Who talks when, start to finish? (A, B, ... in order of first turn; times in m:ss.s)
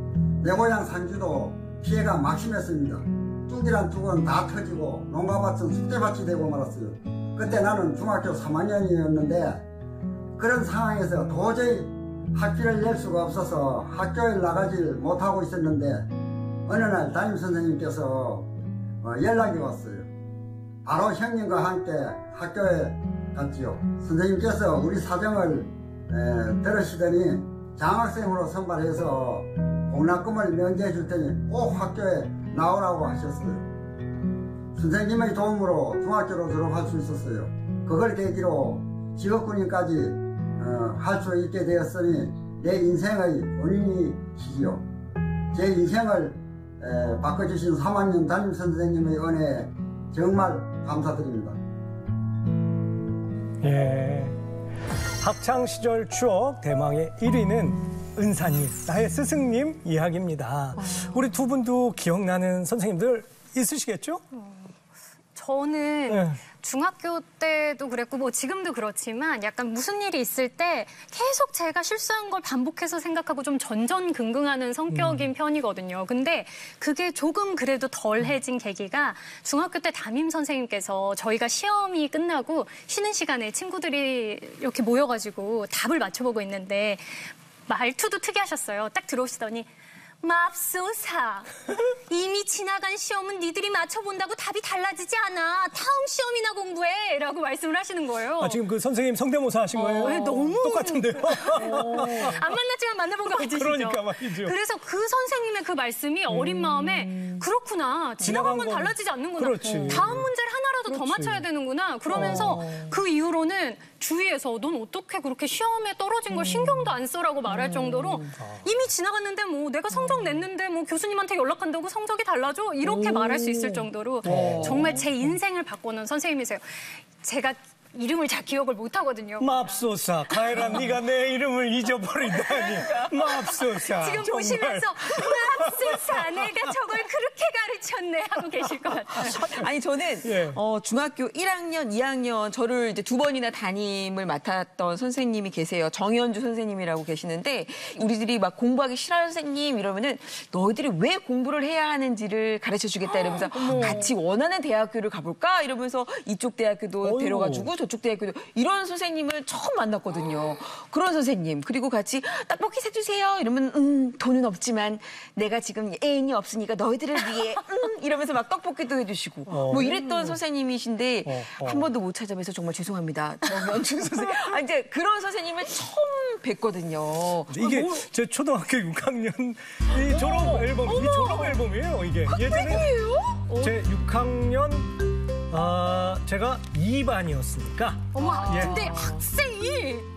0:00.4-0:09.6 A
0:10.4-0:16.1 A
0:16.7-0:18.5 A
0:19.0-0:20.1 A
0:20.8-0:33.7 A
0:34.8-0:44.8 A
0:45.5-0:51.6 A
0:53.6-0:54.4 B
0:55.2-1:04.2 B
1:04.3-1:04.7 C
1:05.4-1:29.7 C
1:06.1-1:06.4 B
1:14.9-1:15.3 B
1:30.2-1:38.6 C
1:38.4-1:42.5 B
1:39.7-2:10.8 C
1:43.3-1:44.6 B
1:46.3-1:47.2 B
1:48.2-1:50.3 B
1:49.7-1:50.0 D
1:50.8-1:51.4 B
1:52.1-1:52.6 B
1:52.2-1:52.9 D
1:56.3-1:56.9 D
1:57.5-1:58.3 D
1:58.4-1:58.6 B
2:02.8-2:05.4 B
2:04.3-2:05.0 D
2:09.4-2:16.7 B
2:12.3-2:13.2 D
2:12.5-2:12.8 C
2:13.5-2:19.6 C
2:19.1-2:58.0 D
2:20.2-2:20.6 B
2:33.0-2:34.1 C
2:33.7-2:34.0 B
2:37.0-2:37.7 B
2:49.4-2:50.4 B
2:51.2-2:51.9 B
2:54.2-2:54.5 B
2:57.5-3:02.9 B
3:00.0-3:01.6 D
3:02.2-3:03.5 D
3:03.5-3:03.8 C
3:03.5-3:08.8 B
3:08.1-3:10.1 C